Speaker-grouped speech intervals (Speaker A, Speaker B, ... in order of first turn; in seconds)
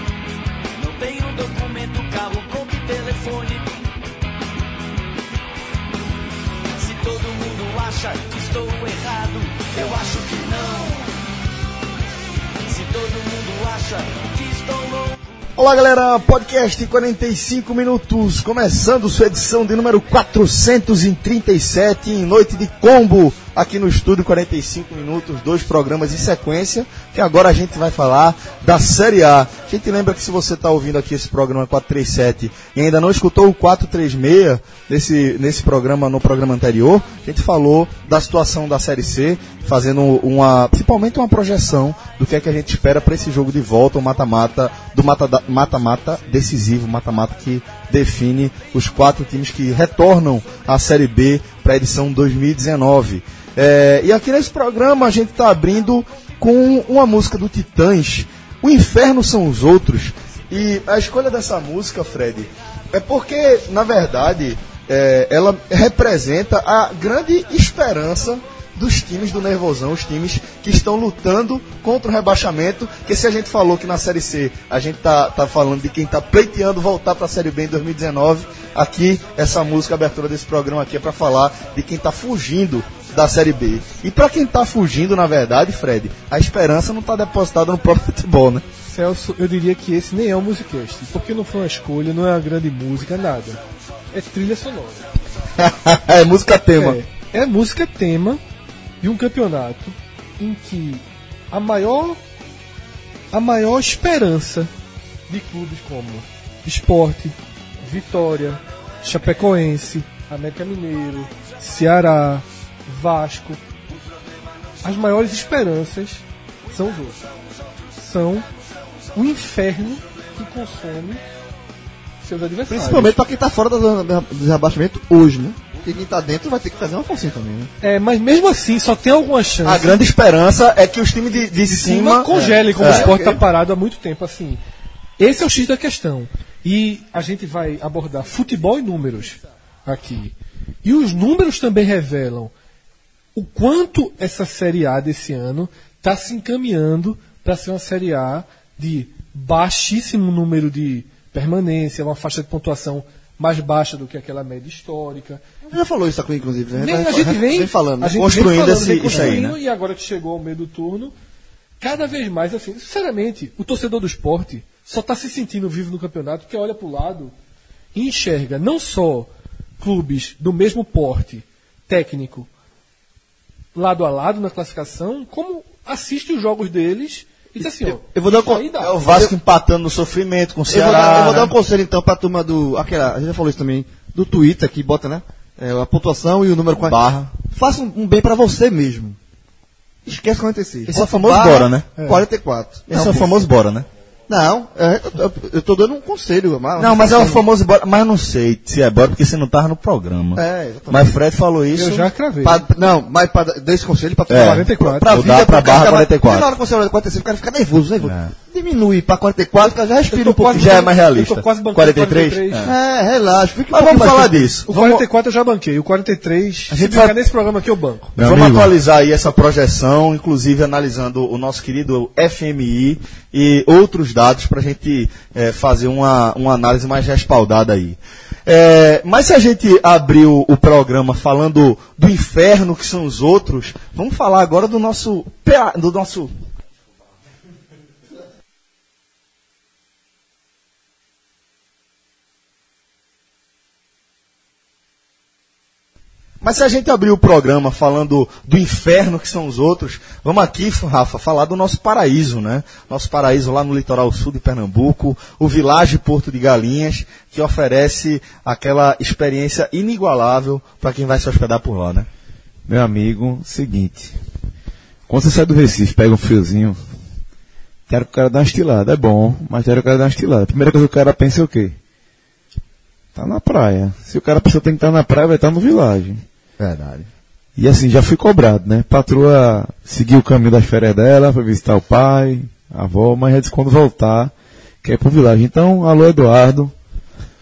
Speaker A: 0.8-3.9, 6.7-11.1, 12.6-15.2
Speaker B: 15.6-88.7, 95.6-97.0, 129.6-133.4, 158.2-159.6, 178.7-181.5, 186.8-187.3, 190.9-192.0, 192.9-193.9, 196.8-202.1, 204.3-206.5, 208.0-208.3, 210.5-212.8, 213.7-215.1, 216.7-217.1, 218.2-236.3, 246.4-262.1, 276.6-277.1
Speaker C: 88.9-93.6, 94.1-95.1, 96.8-98.4, 99.0-102.2, 103.3-104.7, 105.3-113.6, 114.8-117.2, 118.0-118.5, 119.2-121.2, 122.2-123.2, 127.8-130.0, 131.7-134.6, 135.2-142.5, 143.3-155.4, 156.8-161.1, 161.8-167.3, 167.9-172.5, 173.8-179.0, 192.0-192.2, 201.7-202.7, 204.3-205.1, 209.6-212.7, 214.7-218.2
Speaker D: 122.7-127.7, 132.8-133.1, 155.7-158.2, 159.1-159.4, 177.8-179.3, 180.7-189.2, 190.1-193.4, 194.3-197.4, 200.4-201.1, 202.4-210.8, 212.6-214.6
Speaker E: 218.2-218.7, 262.7-264.2, 265.1-266.8, 267.9-271.8, 273.1-276.2, 277.6-286.7